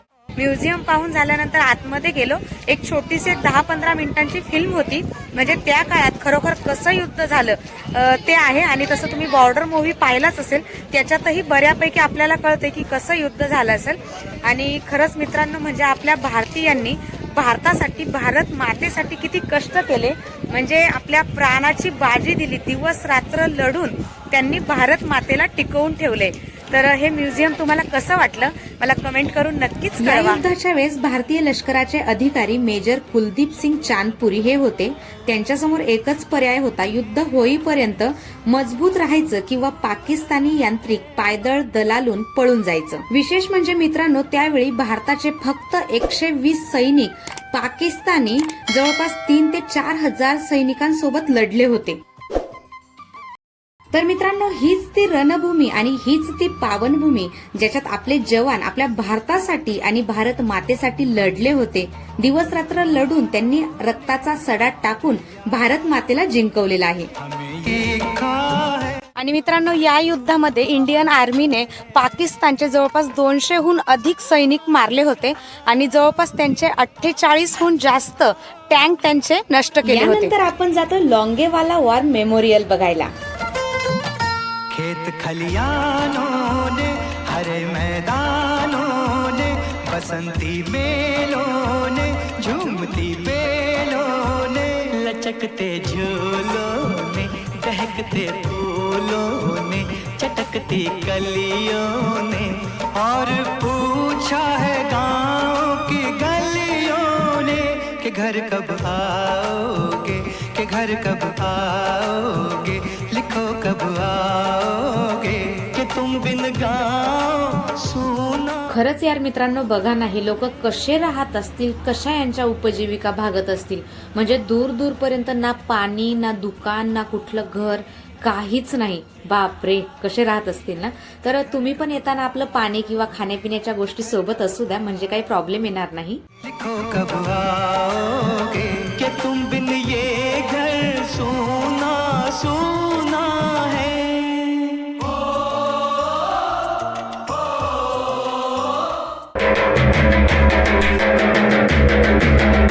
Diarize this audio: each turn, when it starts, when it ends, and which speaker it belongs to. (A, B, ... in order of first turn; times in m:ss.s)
0:00.4-0:30.4 A
0:30.0-0:52.0 B
0:53.9-1:07.1 B
1:07.3-1:09.0 C
1:09.2-1:20.3 A
1:19.8-1:23.1 B
1:24.7-1:58.8 C
1:58.7-2:16.2 B
2:16.4-2:25.0 C